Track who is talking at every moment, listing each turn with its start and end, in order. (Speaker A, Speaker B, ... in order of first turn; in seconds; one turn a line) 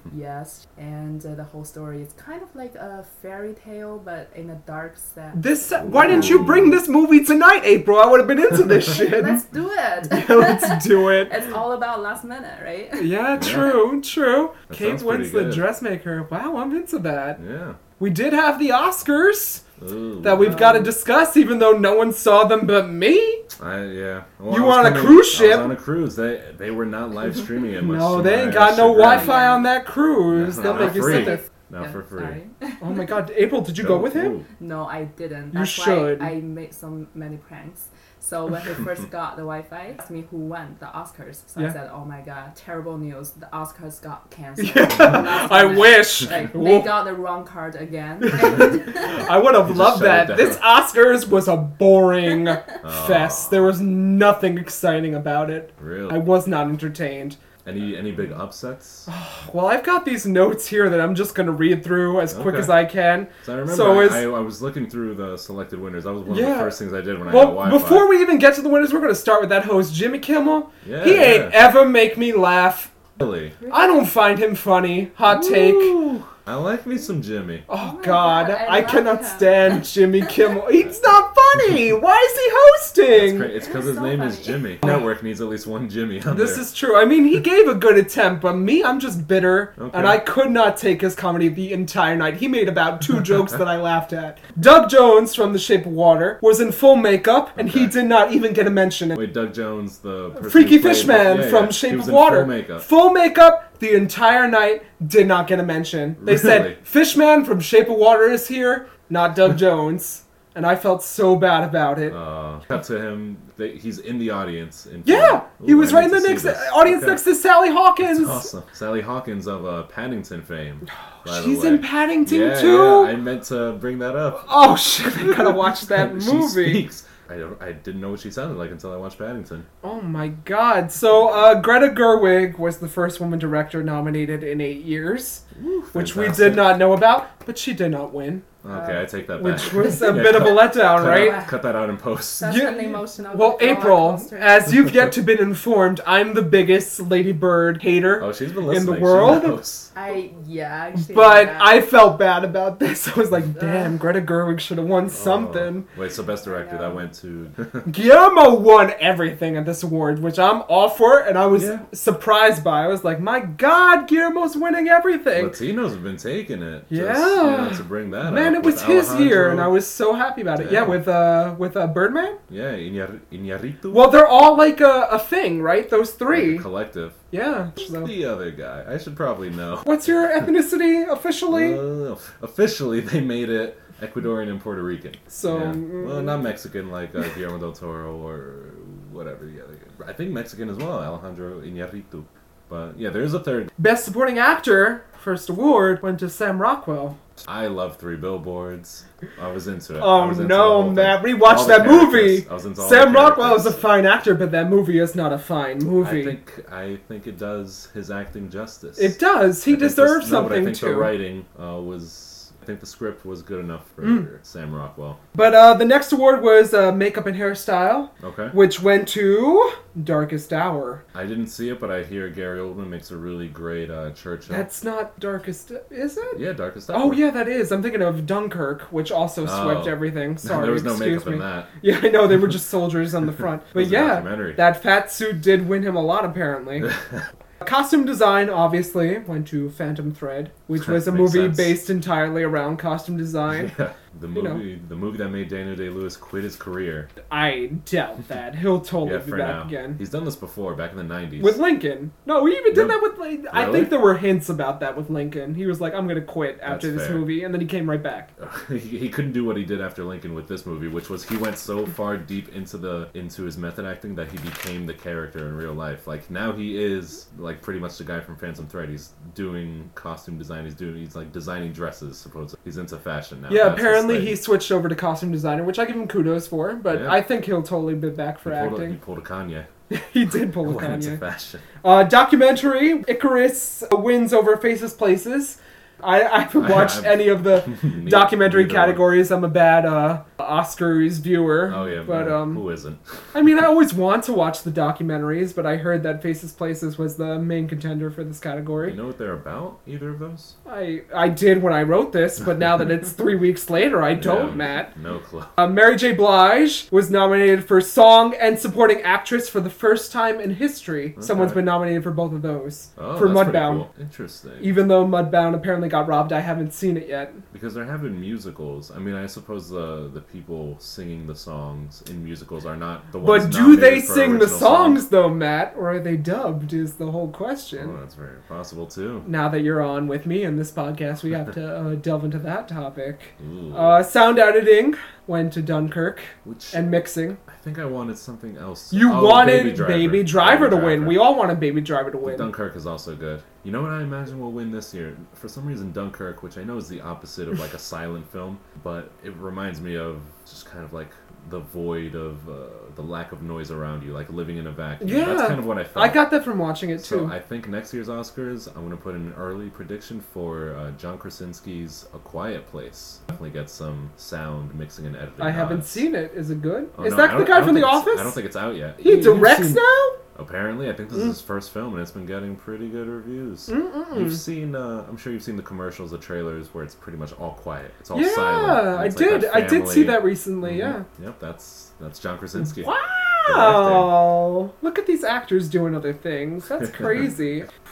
Speaker A: 0.1-6.6
Speaker B: 5.3-9.4
Speaker C: 5.8-6.8
Speaker A: 8.7-13.6
Speaker B: 10.0-11.3
Speaker B: 13.0-17.4
Speaker C: 13.4-13.8
Speaker C: 14.7-15.7
Speaker C: 17.4-17.8
Speaker B: 18.0-19.6
Speaker C: 19.8-20.7
Speaker B: 20.2-23.5
Speaker A: 20.4-20.9
Speaker C: 23.6-29.3
Speaker B: 24.5-25.8
Speaker B: 27.8-31.4
Speaker A: 29.0-29.8
Speaker C: 30.3-32.4
Speaker A: 30.6-33.2
Speaker B: 32.8-34.4
Speaker C: 33.8-34.5
Speaker A: 34.5-49.3
Speaker B: 35.5-36.3
Speaker B: 44.6-47.0
Speaker B: 48.2-57.4
Speaker C: 49.6-50.6
Speaker C: 52.8-53.7
Speaker C: 55.8-56.2
Speaker C: 57.6-59.1
Speaker B: 59.1-64.3
Speaker C: 62.3-62.9
Speaker C: 63.4-68.1
Speaker B: 66.3-72.9
Speaker C: 70.8-71.6
Speaker C: 73.2-73.6
Speaker A: 73.6-74.1
Speaker B: 73.7-76.0
Speaker C: 75.2-77.7
Speaker B: 77.7-83.5
Speaker A: 77.8-80.6
Speaker C: 83.1-86.7
Speaker A: 83.5-84.8
Speaker B: 86.3-99.2
Speaker C: 89.8-90.3
Speaker C: 97.6-98.0
Speaker C: 99.2-102.9
Speaker B: 100.4-112.2
Speaker C: 106.2-106.8
Speaker C: 112.1-117.3
Speaker B: 115.0-118.5
Speaker C: 118.0-124.5
Speaker B: 121.2-123.1
Speaker B: 124.4-126.8
Speaker C: 125.2-129.7
Speaker B: 129.8-138.5
Speaker C: 135.5-136.9
Speaker C: 138.6-142.7
Speaker A: 138.7-139.1
Speaker B: 139.3-141.4
Speaker A: 141.0-141.6
Speaker A: 142.4-144.7
Speaker B: 142.5-149.6
Speaker C: 148.2-149.9
Speaker A: 149.9-151.9
Speaker B: 151.0-155.9
Speaker A: 153.6-154.0
Speaker C: 155.1-157.9
Speaker A: 156.2-157.1
Speaker B: 157.9-165.6
Speaker C: 161.6-161.8
Speaker C: 165.3-169.7
Speaker B: 166.9-172.4
Speaker C: 170.6-171.0
Speaker C: 172.5-174.1
Speaker B: 173.9-176.7
Speaker C: 176.3-177.2
Speaker B: 177.3-178.1
Speaker C: 177.8-180.5
Speaker B: 179.8-181.8
Speaker C: 181.5-193.7
Speaker B: 185.3-186.5
Speaker B: 193.8-197.2
Speaker C: 197.4-203.8
Speaker B: 200.0-206.4
Speaker C: 206.0-215.2
Speaker B: 209.0-211.1
Speaker B: 214.0-214.3
Speaker B: 215.3-221.0
Speaker C: 218.2-218.6
Speaker C: 221.1-224.7
Speaker B: 224.5-236.9
Speaker C: 226.3-227.2
Speaker C: 229.4-231.7
Speaker C: 233.7-234.6
Speaker C: 236.8-237.3
Speaker B: 237.6-243.7
Speaker C: 240.8-241.8
Speaker C: 243.5-247.1
Speaker B: 244.3-244.6
Speaker B: 247.3-250.0
Speaker C: 249.0-251.6
Speaker B: 251.4-258.3
Speaker C: 252.7-253.0
Speaker C: 253.5-254.0
Speaker C: 256.7-257.3
Speaker C: 258.4-274.4
Speaker B: 273.5-279.0
Speaker C: 276.9-277.2
Speaker C: 278.4-279.7
Speaker B: 279.9-281.2
Speaker C: 280.6-281.7
Speaker B: 281.8-292.6
Speaker C: 286.6-289.1
Speaker C: 291.7-293.0
Speaker B: 293.3-299.0
Speaker C: 298.8-300.6
Speaker B: 300.7-304.9
Speaker C: 304.2-305.6
Speaker B: 305.6-313.9
Speaker C: 311.2-311.6
Speaker C: 313.0-314.7
Speaker B: 314.6-317.4
Speaker C: 317.5-325.1
Speaker B: 323.2-328.0
Speaker C: 327.8-329.3
Speaker B: 329.2-337.4
Speaker C: 333.4-334.0
Speaker C: 336.4-336.8
Speaker C: 337.5-341.3
Speaker B: 338.9-342.5
Speaker C: 342.2-356.2
Speaker B: 355.0-357.3
Speaker C: 357.0-366.1
Speaker B: 365.4-368.4
Speaker C: 366.9-369.8
Speaker B: 369.0-370.2
Speaker C: 370.4-382.9
Speaker B: 373.7-374.4
Speaker B: 378.1-381.1
Speaker B: 382.7-387.7
Speaker C: 383.4-384.2
Speaker C: 386.8-387.2